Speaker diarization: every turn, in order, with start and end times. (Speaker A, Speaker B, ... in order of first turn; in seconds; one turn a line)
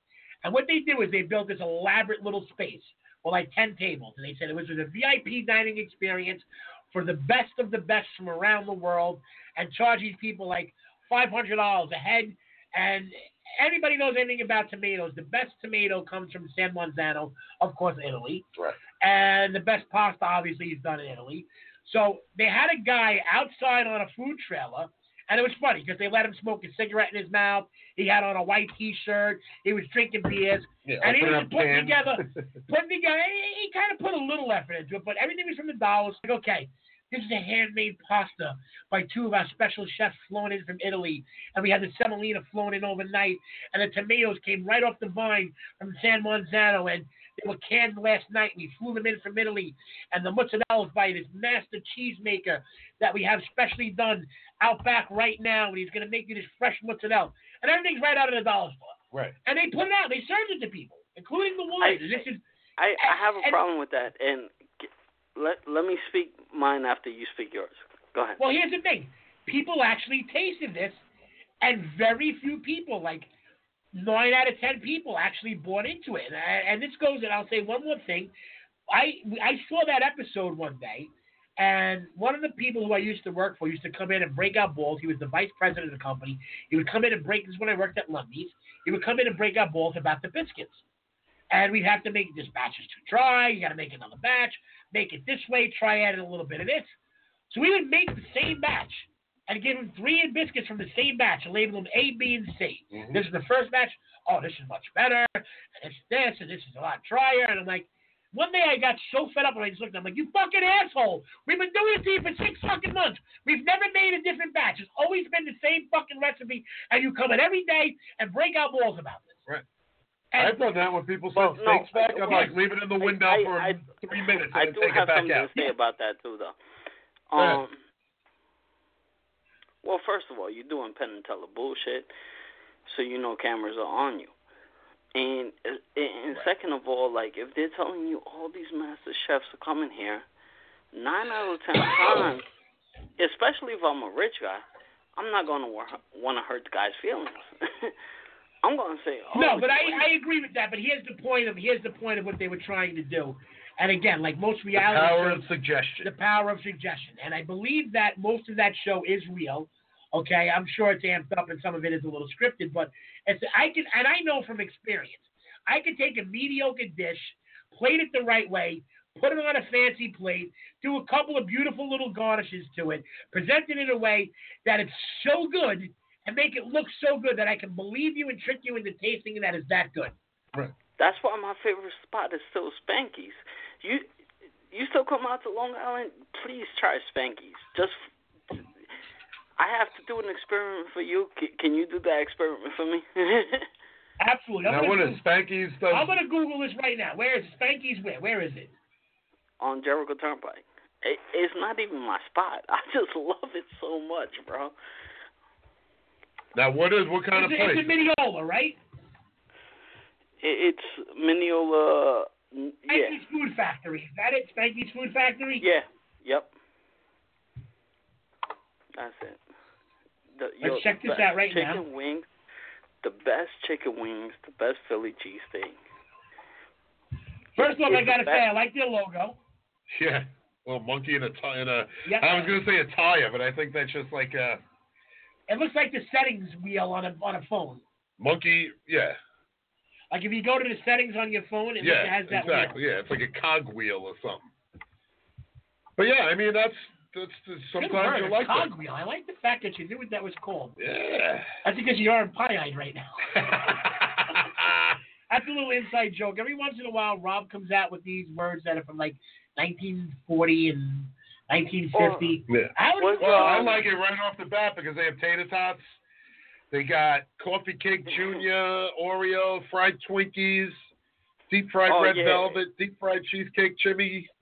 Speaker A: 0.4-18.4
Speaker A: 19.0-62.4
Speaker B: 30.8-32.4
Speaker C: 61.8-62.2
Speaker C: 62.8-68.4
Speaker A: 63.0-63.6
Speaker A: 68.4-71.0
Speaker A: 71.6-73.3
Speaker A: 73.9-78.3
Speaker A: 78.9-90.8
Speaker A: 91.5-96.9
Speaker A: 97.5-119.4
Speaker B: 102.9-103.2
Speaker A: 120.3-120.6
Speaker B: 120.4-125.7
Speaker C: 121.3-126.5
Speaker C: 127.3-127.7
Speaker B: 127.3-127.6
Speaker C: 129.8-132.1
Speaker C: 132.9-134.3
Speaker C: 135.1-140.2
Speaker C: 140.9-142.4
Speaker C: 143.2-144.6
Speaker C: 145.2-147.9
Speaker C: 148.6-150.1
Speaker A: 149.3-155.4
Speaker B: 154.8-156.1
Speaker A: 156.0-180.1
Speaker C: 181.0-184.1
Speaker C: 184.7-188.0
Speaker C: 189.6-193.7
Speaker A: 194.2-195.2
Speaker B: 194.7-196.1
Speaker A: 195.9-198.7
Speaker C: 199.6-204.7
Speaker B: 206.5-207.9
Speaker A: 207.3-208.8
Speaker C: 210.4-213.2
Speaker A: 212.9-215.6
Speaker C: 215.6-216.5
Speaker C: 219.0-219.4
Speaker C: 220.3-222.3
Speaker A: 220.6-221.8
Speaker C: 223.0-225.8
Speaker A: 227.6-229.4
Speaker C: 227.6-228.4
Speaker B: 229.9-234.6
Speaker A: 232.0-232.6
Speaker A: 235.5-237.8
Speaker B: 238.2-239.2
Speaker A: 240.1-242.8
Speaker B: 241.8-244.5
Speaker B: 246.0-248.7
Speaker A: 247.8-250.8
Speaker B: 250.8-251.5
Speaker A: 251.6-253.7
Speaker B: 253.4-255.0
Speaker A: 255.3-263.7
Speaker C: 261.9-262.4
Speaker B: 262.5-266.0
Speaker C: 263.0-263.8
Speaker B: 266.7-270.8
Speaker B: 271.5-274.3
Speaker C: 271.9-272.6